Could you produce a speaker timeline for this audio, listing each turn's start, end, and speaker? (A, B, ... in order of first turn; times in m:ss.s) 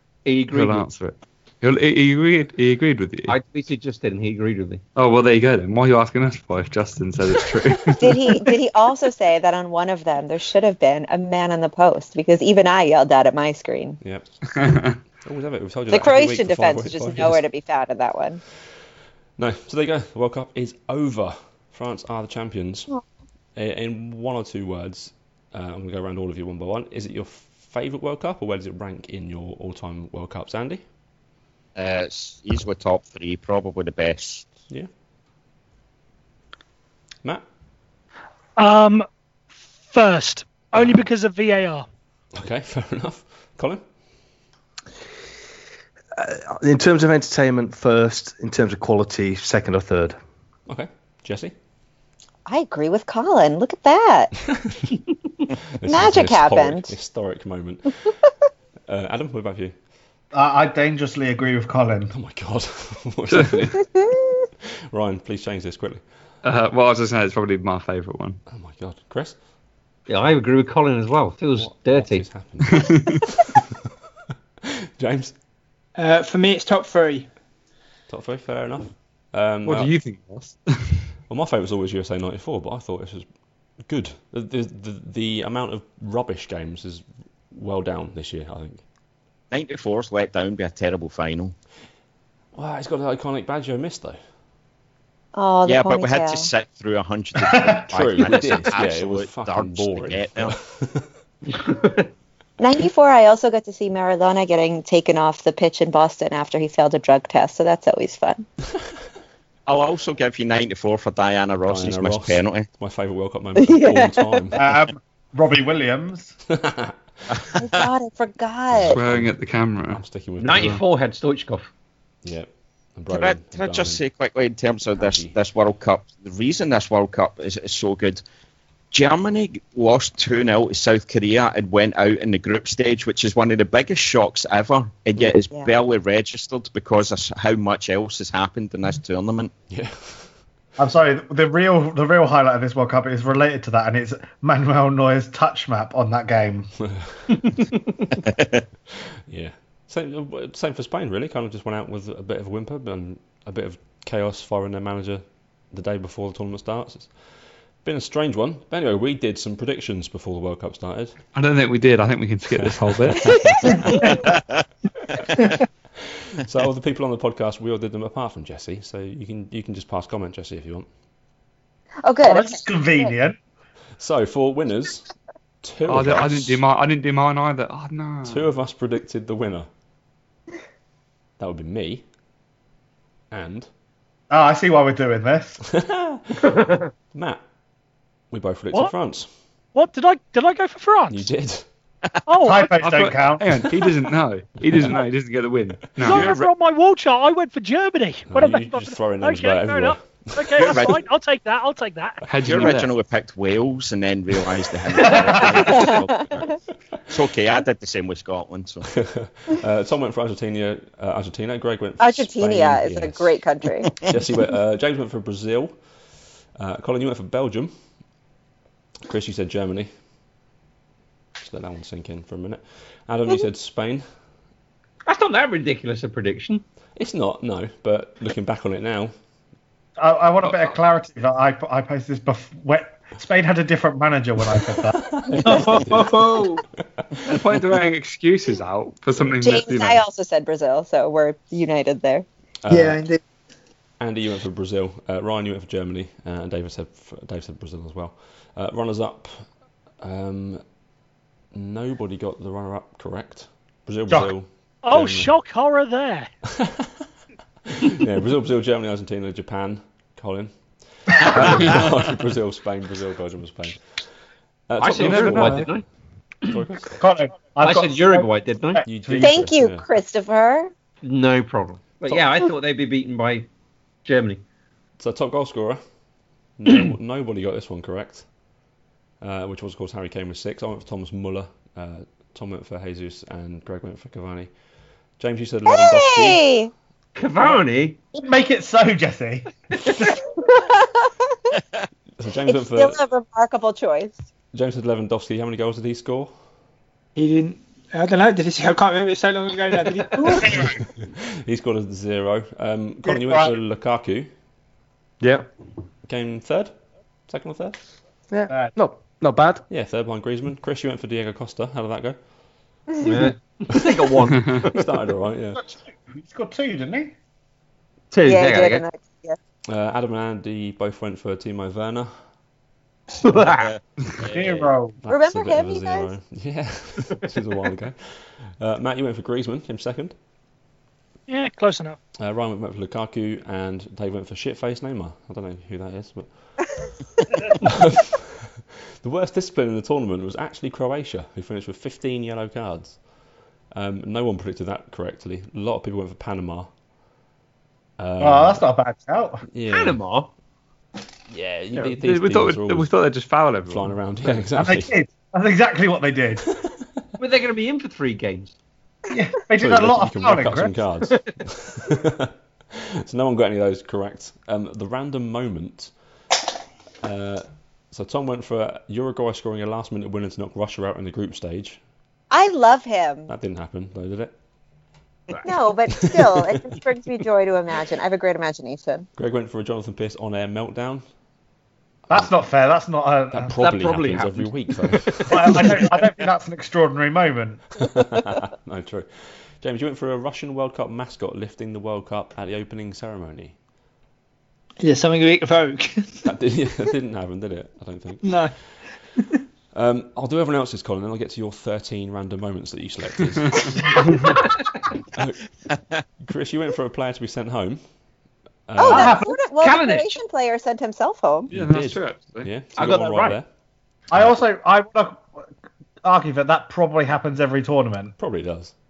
0:00.2-0:00.9 A
0:00.5-0:03.4 B
0:03.3-0:04.8 A
0:05.0-0:08.3 B
0:08.0-0:14.0 C
0:14.0-0:14.3 D
0:14.5-0:15.0 B
0:15.2-0:17.4 D
0:15.9-0:18.4 C
0:19.4-0:22.9 D
0:23.6-0:30.8 D
0:31.8-0:34.5 E
0:38.6-0:39.1 F
0:39.9-0:41.9 F
0:42.4-0:43.8 D
0:46.2-0:50.2 G
0:50.7-0:51.5 D
0:52.5-0:54.3 C
0:54.6-0:54.9 D
0:55.8-0:58.0 D
0:55.8-0:56.9 C
0:58.9-0:59.7 D
1:00.3-1:02.1 H
1:02.1-1:03.9 D
1:03.3-1:03.8 B
1:03.8-1:04.1 C
1:04.9-1:06.0 D
1:06.4-1:08.4 B
1:08.5-1:09.4 D
1:10.1-1:12.3 A
1:11.6-1:13.6 D
1:12.6-1:13.2 B
1:15.0-1:15.3 D
1:16.0-1:17.3 I
1:18.1-1:19.9 D
1:19.6-1:21.0 B
1:21.3-1:23.3 D
1:23.8-1:28.8 D
1:29.5-1:31.6 E
1:32.5-1:34.2 D
1:35.3-1:36.5 C
1:35.6-1:40.5 E
1:37.4-1:37.9 H
1:37.9-1:41.1 D
1:41.5-1:42.1 A
1:42.6-1:48.5 C
1:49.7-1:52.6 E
1:51.6-1:54.6 D
1:53.6-1:54.4 C
1:54.6-1:56.4 H
1:56.5-1:56.9 D
1:57.3-1:57.8 E
1:57.6-1:59.0 C
1:58.7-1:59.4 D
1:58.9-2:00.8 B
1:59.9-2:00.8 D
2:00.4-2:01.7 A
2:02.2-2:04.0 D
2:03.1-2:08.2 E
2:05.0-2:05.3 D
2:08.9-2:19.5 E
2:19.7-2:20.3 D
2:20.8-2:26.7 H
2:26.8-2:27.3 D
2:28.4-2:28.6 E
2:29.3-2:37.1 D
2:37.8-2:41.2 D
2:41.3-2:44.2 B
2:42.6-2:43.7 D
2:46.4-2:50.9 D
2:52.0-2:53.1 C
2:52.2-2:53.4 H
2:54.0-2:55.1 D
2:55.6-2:56.6 D
2:55.9-2:58.4 B
2:58.3-2:59.7 D
3:01.4-3:02.0 D
3:03.3-3:03.7 D
3:04.3-3:05.6 H
3:05.7-3:06.5 D
3:06.4-3:06.9 A
3:07.1-3:07.4 D
3:08.3-3:09.3 D
3:09.8-3:11.3 F
3:11.1-3:11.6 D
3:12.3-3:12.8 F
3:12.4-3:13.6 H
3:12.8-3:16.4 B
3:16.0-3:22.3 F
3:18.3-3:20.9 D
3:20.6-3:21.0 E
3:22.3-3:22.9 B
3:22.4-3:28.9 E
3:25.1-3:25.4 H
3:28.9-3:33.3 D
3:32.0-3:33.9 C
3:34.0-3:35.7 D
3:36.6-3:37.7 D
3:39.1-3:39.9 D
3:41.4-3:44.0 D
3:45.1-3:46.6 A
3:47.0-3:49.1 D
3:50.0-3:55.7 H
3:55.0-3:56.5 D
3:55.4-3:56.6 I
3:57.0-3:57.4 D
3:57.2-4:00.0 B
3:59.4-4:02.2 C
4:02.6-4:03.0 D
4:02.7-4:03.2 I
4:04.0-4:09.5 D
4:10.0-4:10.6 D
4:11.5-4:15.3 D
4:14.8-4:16.3 F
4:16.6-4:16.9 D
4:17.8-4:23.8 D
4:21.5-4:21.9 B
4:24.7-4:25.7 D
4:24.8-4:25.8 A
4:24.9-4:25.7 B
4:26.5-4:27.0 D
4:27.0-4:29.5 H
4:27.6-4:28.8 A
4:28.8-4:29.8 D
4:29.2-4:30.7 C
4:31.0-4:33.5 A
4:34.0-4:34.4 A
4:35.0-4:35.8 D
4:36.6-4:38.2 D
4:39.2-4:44.5 D
4:45.2-4:46.4 D
4:45.7-4:46.7 C
4:47.2-4:48.0 A
4:48.1-4:50.4 H
4:50.5-4:51.1 C
4:52.2-4:53.0 D
4:52.5-4:54.2 C
4:54.5-4:56.3 D
4:57.2-5:00.7 I
5:00.4-5:00.8 H
5:01.0-5:04.3 D
5:03.0-5:03.5 H
5:06.1-5:06.7 D
5:07.3-5:07.8 D
5:08.3-5:09.6 G
5:08.5-5:08.8 H
5:09.7-5:12.2 D
5:13.0-5:14.9 A
5:14.7-5:15.6 D
5:15.6-5:17.1 H
5:18.1-5:18.8 A
5:18.2-5:19.4 C
5:19.7-5:22.1 D
5:23.2-5:23.7 A
5:23.6-5:24.7 E
5:24.3-5:25.0 H
5:25.0-5:30.1 D
5:25.1-5:26.1 C
5:31.3-5:32.0 F
5:32.2-5:36.6 D
5:37.6-5:43.0 D
5:43.7-5:46.7 D
5:48.0-5:48.6 D
5:48.2-5:49.4 H
5:49.5-5:50.0 D
5:49.7-5:50.3 A
5:51.3-5:52.9 D
5:51.9-5:54.4 B
5:53.7-5:54.9 D
5:54.6-5:56.5 H
5:57.2-5:58.5 A
5:59.1-6:00.7 H
5:59.6-6:05.9 D
6:07.0-6:11.8 D
6:12.3-6:13.3 C
6:13.3-6:14.3 D
6:15.3-6:15.6 A
6:15.4-6:19.1 C
6:15.9-6:16.6 D
6:19.2-6:21.0 D
6:22.1-6:23.5 H
6:23.3-6:25.9 D
6:23.6-6:25.8 A
6:25.3-6:27.6 H
6:27.8-6:33.5 D
6:34.8-6:36.3 I
6:36.2-6:38.5 D
6:38.2-6:38.5 I
6:39.7-6:44.3 D
6:43.4-6:44.2 B
6:44.3-6:44.6 A
6:45.2-6:45.5 D
6:46.2-6:47.8 D
6:48.7-6:49.2 D
6:48.8-6:51.5 C
6:48.9-6:49.4 H
6:49.6-6:50.2 A
6:51.5-6:52.5 B
6:51.5-6:53.5 D
6:52.8-6:53.4 A
6:54.1-6:55.4 H
6:56.0-6:58.1 H
6:58.2-6:58.7 D